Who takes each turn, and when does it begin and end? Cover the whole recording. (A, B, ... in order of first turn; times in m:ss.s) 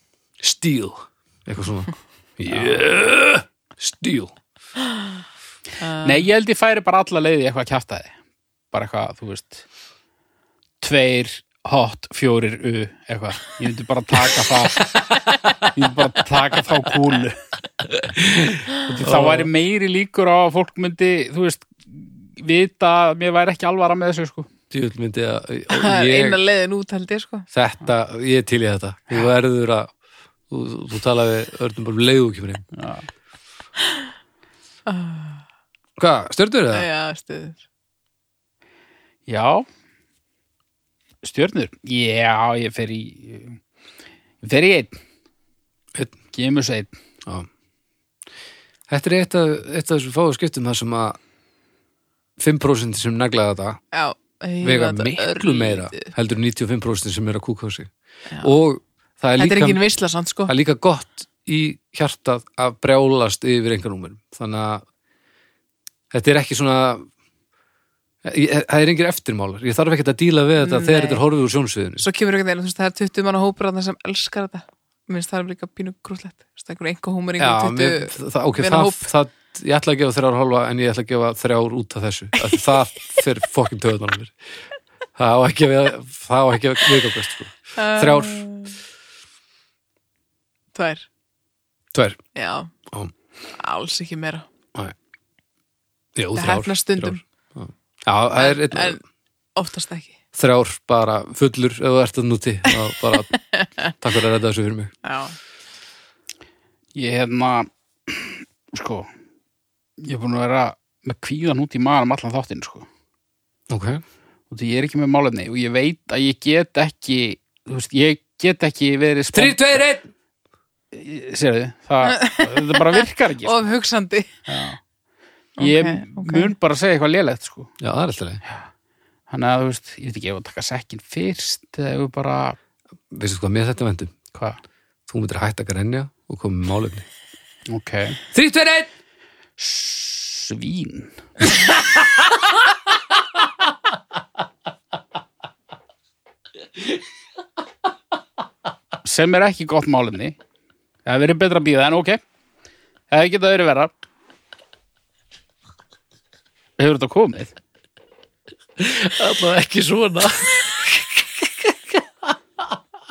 0:00.4-0:04.3 A
0:05.8-0:06.2 B
0:06.0-0:08.1 C
0:08.7-0:09.6 C
0:10.8-0:15.0 C
0:15.7-0:17.4 C
0:18.0-0:19.5 A
0:18.8-0:24.5 C
0:24.7-0:26.4 A
0:25.7-0:27.5 B
0:27.5-0:29.9 A
0:30.5-0:32.6 A
0:32.7-0:33.0 C
0:34.9-0:35.4 B
0:36.0-0:36.8 A
0:36.7-0:37.6 B
0:39.3-0:39.6 C
0:41.2-0:43.6 C
0:44.4-0:45.0 C
0:46.3-0:47.0 C
0:48.9-0:51.2 A
0:52.4-0:53.8 A
0:53.9-0:56.1 B
0:54.6-0:59.8 A
0:59.4-1:00.5 B
1:00.5-1:04.8 A
1:06.1-1:07.0 A
1:08.2-1:12.0 A
1:10.6-1:11.2 B
1:12.0-1:19.1 B
1:17.4-1:24.4 A
1:25.2-1:28.4 A
1:27.8-1:28.8 B
1:30.7-1:31.0 B
1:31.9-1:32.2 A
1:32.3-1:32.7 B
1:33.6-1:34.4 B
1:36.2-1:39.0 A
1:36.4-1:37.2 B
1:38.4-1:39.0 B
1:39.6-1:40.2 B
1:40.3-1:43.3 A
1:43.3-1:43.9 B
1:44.0-1:44.9 A
1:45.0-1:45.4 B
1:46.9-1:49.1 C
1:50.0-1:52.8 C
1:53.7-1:54.0 A
1:54.5-1:59.6 C
1:59.3-2:00.1 A
2:00.9-2:03.6 C
2:02.0-2:04.3 B
2:04.5-2:04.8 C
2:05.6-2:06.5 B
2:05.6-2:07.7 C
2:07.8-2:08.4 A
2:09.3-2:12.6 C
2:13.1-2:14.1 A
2:15.1-2:17.1 A
2:17.7-2:18.2 C
2:18.3-2:18.9 A
2:19.6-2:21.5 C
2:29.0-2:30.4 C
2:31.0-2:32.2 C
2:33.1-2:33.9 C
2:36.8-2:37.5 C
2:38.8-2:42.3 A